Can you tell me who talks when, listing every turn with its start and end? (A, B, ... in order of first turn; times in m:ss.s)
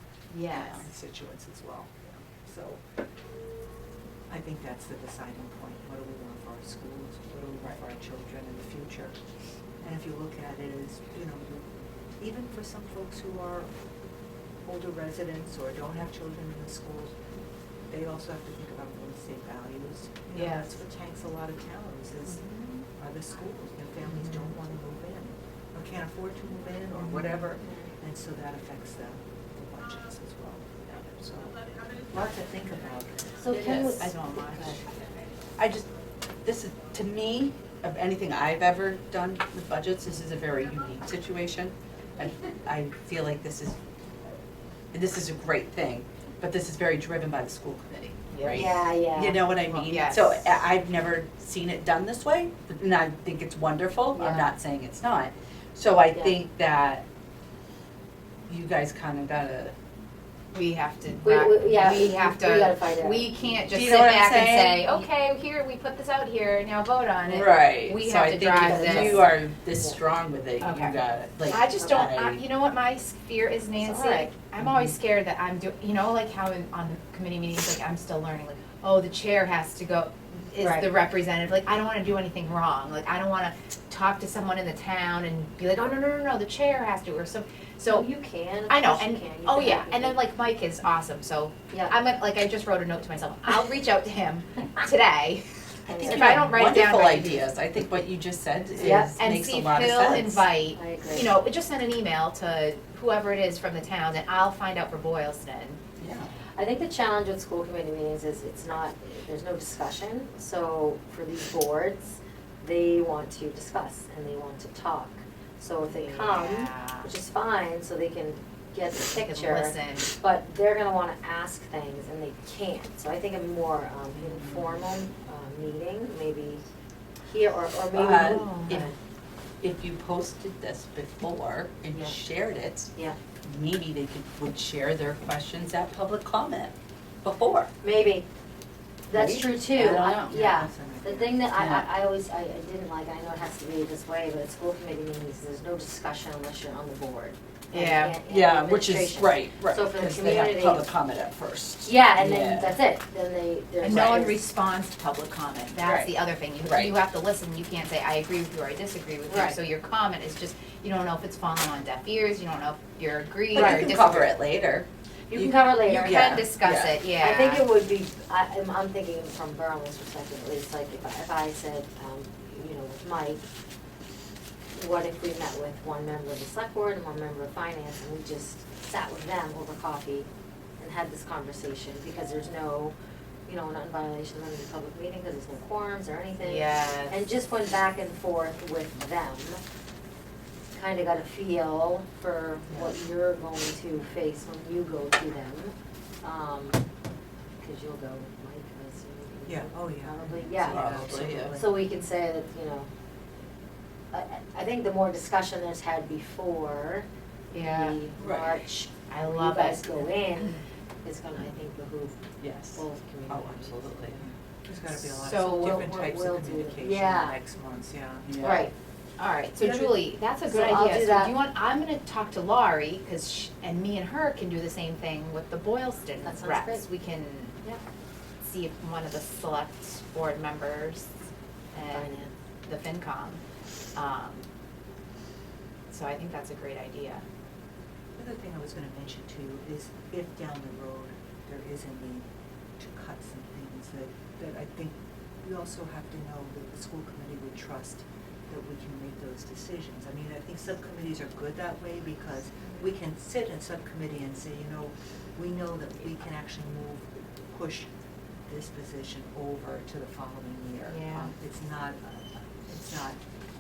0:00.3-0:00.8 A
0:00.5-0:00.9 B
0:00.7-0:02.8 C
0:04.3-0:09.2 C
0:09.8-0:11.7 C
0:12.2-0:13.7 C
0:14.6-0:17.2 C
0:17.9-0:22.4 C
0:20.3-0:20.8 A
0:22.4-0:22.8 A
0:23.0-0:33.3 C
0:24.0-0:24.5 A
0:27.0-0:27.4 A
0:33.4-0:34.8 D
0:33.5-0:34.0 B
0:33.7-0:34.8 A
0:35.6-0:35.9 B
0:36.4-0:43.8 B
0:44.9-0:57.0 B
0:48.3-0:48.7 A
0:48.5-0:49.4 D
0:49.6-0:50.4 A
0:54.1-0:54.5 D
0:58.5-0:59.8 B
1:00.5-1:09.2 A
1:01.2-1:03.4 D
1:03.7-1:04.9 B
1:07.3-1:12.4 B
1:08.5-1:10.0 D
1:10.6-1:28.1 A
1:11.8-1:12.1 D
1:13.8-1:14.3 D
1:20.6-1:20.9 D
1:27.9-1:30.2 D
1:28.7-1:35.4 A
1:31.7-1:32.0 D
1:35.9-1:36.5 D
1:35.9-1:40.5 B
1:36.0-1:37.4 A
1:38.8-1:39.1 D
1:39.2-1:45.8 A
1:40.7-1:41.3 D
1:46.0-1:46.3 B
1:46.6-2:06.6 D
1:55.8-1:57.1 A
1:59.1-2:00.1 A
2:07.2-2:08.9 D
2:07.9-2:08.9 B
2:08.2-2:08.8 A
2:09.6-2:17.7 B
2:11.9-2:12.2 D
2:12.9-2:13.2 D
2:17.8-2:18.3 D
2:19.1-2:30.9 D
2:19.1-2:20.4 B
2:20.1-2:21.5 C
2:21.6-2:21.9 B
2:27.7-2:28.2 A
2:28.2-2:32.8 B
2:31.8-2:34.4 D
2:33.8-2:44.4 A
2:35.8-2:37.0 B
2:39.3-2:39.6 D
2:43.5-2:47.0 B
2:43.6-2:43.8 D
2:45.3-2:46.4 D
2:45.8-2:47.7 A
2:47.1-2:53.4 D
2:54.7-3:00.3 D
3:00.8-3:02.9 D
3:03.5-3:09.6 D
3:06.4-3:07.2 A
3:10.7-3:16.8 D
3:17.6-3:22.9 D
3:19.5-3:21.9 C
3:20.5-3:21.6 B
3:24.1-3:32.2 D
3:27.5-3:28.0 A
3:28.2-3:28.6 B
3:29.1-3:30.5 A
3:32.4-3:34.2 B
3:32.8-3:34.2 D
3:34.2-3:38.3 C
3:35.2-3:35.8 A
3:35.4-3:37.4 D
3:38.2-3:38.7 B
3:38.4-3:38.7 D
3:38.4-3:47.8 A
3:39.6-3:41.3 D
3:46.2-3:46.9 D
3:48.4-3:51.2 A
3:51.7-3:53.4 A
3:51.9-3:52.3 D
3:53.9-3:54.5 A
3:55.9-3:57.2 A
3:58.2-4:02.2 C
4:02.8-4:17.9 C
4:18.5-4:23.2 C
4:20.9-4:21.3 A